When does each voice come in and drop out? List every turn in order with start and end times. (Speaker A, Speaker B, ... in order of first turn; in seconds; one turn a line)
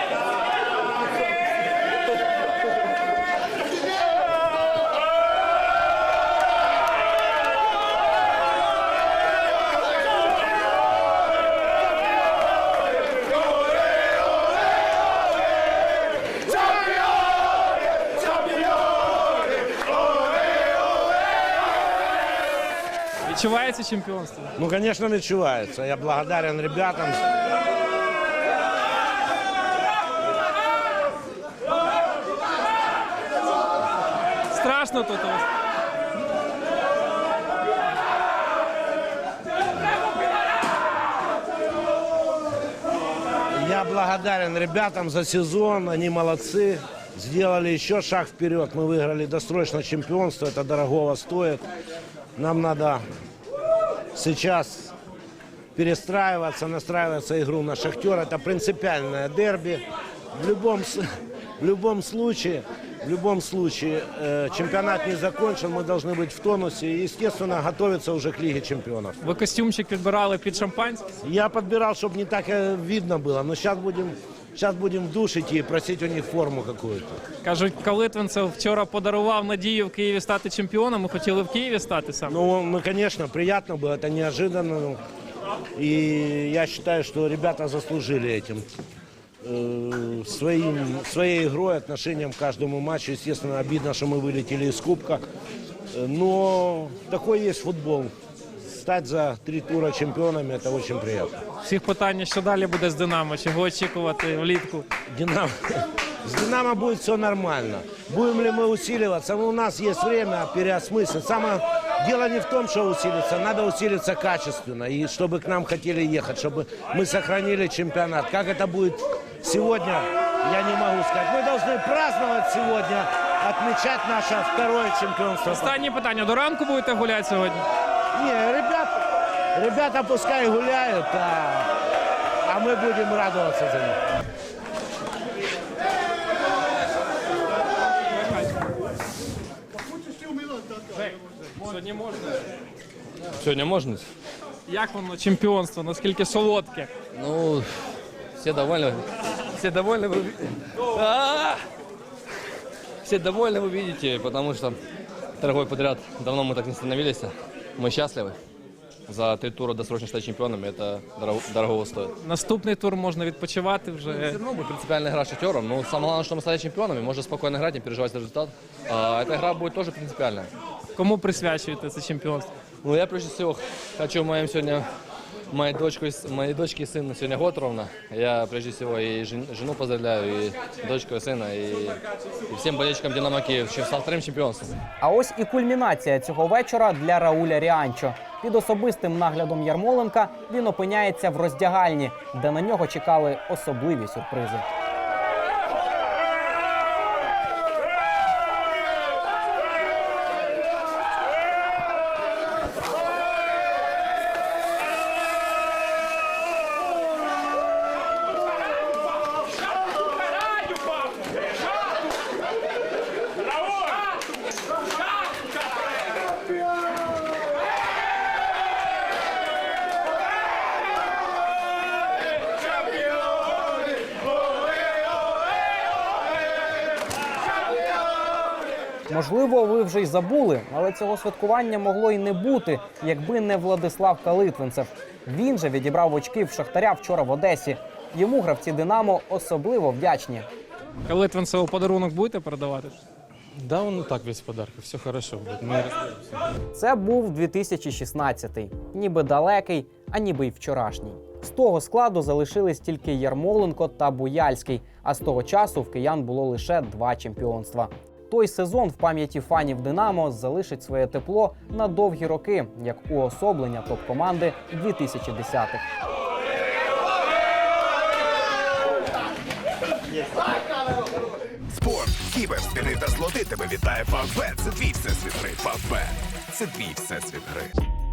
Speaker A: 23.2-24.5
Speaker B: 24.6-27.2
Speaker A: 34.5-35.5
Speaker B: 43.5-51.6
Speaker B: 52.4-53.0
Speaker B: 54.1-54.9
Speaker B: 55.7-61.1
Speaker B: 61.6-69.2
Speaker A: 69.2-71.0
Speaker B: 71.2-77.2
Speaker A: 77.4-82.3
Speaker B: 82.3-85.0
Speaker B: 85.8-88.7
Speaker B: 89.4-95.2
Speaker B: 95.9-101.4
Speaker A: 101.6-104.9
Speaker B: 105.1-125.8
Speaker A: 125.5-127.6
Speaker B: 128.1-128.9
Speaker B: 129.5-131.7
Speaker B: 132.4-134.0
Speaker A: 140.9-142.2
Speaker C: 143.3-144.1
Speaker A: 144.7-146.9
Speaker C: 147.1-151.6
Speaker C: 153.0-154.8
Speaker C: 155.4-158.4
Speaker C: 159.1-162.1
Speaker A: 162.2-164.4
Speaker C: 164.1-170.5
Speaker A: 170.9-172.5
Speaker C: 172.8-174.9
Speaker C: 175.5-184.8
Speaker D: 185.0-194.6
Speaker D: 229.1-240.4
Speaker A: 241.1-243.0
Speaker E: 243.6-246.0
Speaker D: 246.7-265.8
Speaker C: 271.7-273.9
Speaker F: 272.1-277.7